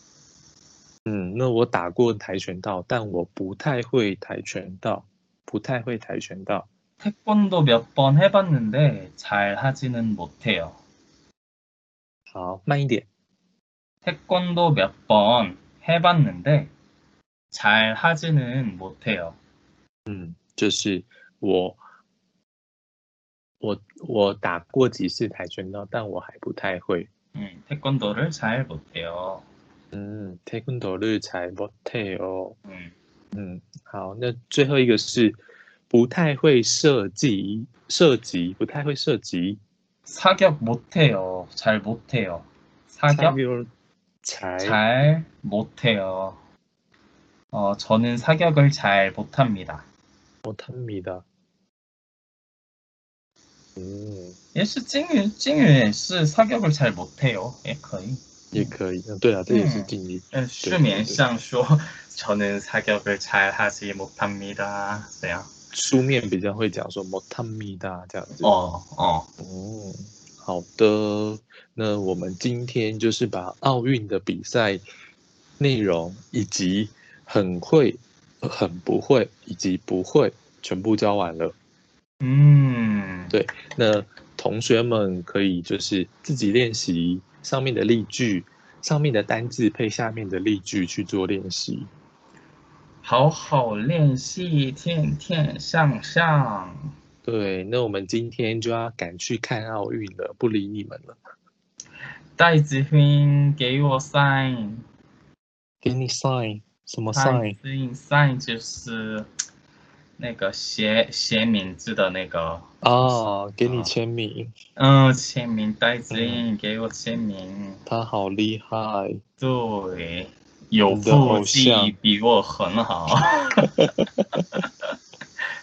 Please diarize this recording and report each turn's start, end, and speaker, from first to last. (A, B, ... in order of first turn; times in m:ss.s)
0:01.1-0:06.7 A
0:07.0-0:10.8 B
0:12.3-0:13.1 A
0:14.0-0:16.7 B
0:17.5-0:19.4 B
0:20.1-0:21.8 A
0:23.6-0:27.1 A
0:27.4-0:29.4 B
0:29.9-0:32.6 A
0:32.6-0:32.9 B
0:33.3-0:39.6 A
0:40.1-0:43.4 B
0:43.1-0:43.7 A
0:44.2-0:44.8 A
0:44.6-0:46.4 B
0:47.5-0:49.9 B
0:50.4-0:51.2 A
0:53.8-0:54.4 A
0:54.5-0:58.8 B
0:58.5-1:01.2 A
0:59.5-1:05.5 B
1:05.7-1:08.6 A
1:08.4-1:09.3 B
1:09.4-1:14.8 A
1:15.6-1:21.6 A
1:22.2-1:23.4 B
1:23.3-1:31.9 A
1:33.0-1:36.9 B
1:37.2-1:41.2 A
1:42.4-1:44.8 B
1:45.8-1:47.6 A
1:47.1-1:49.3 B
1:50.2-1:53.9 B
1:52.8-1:54.5 A
1:54.8-1:57.8 B
1:56.1-1:56.5 A
1:57.9-1:59.2 A
1:59.4-2:03.7 B
2:00.9-2:01.9 A
2:03.8-2:04.4 A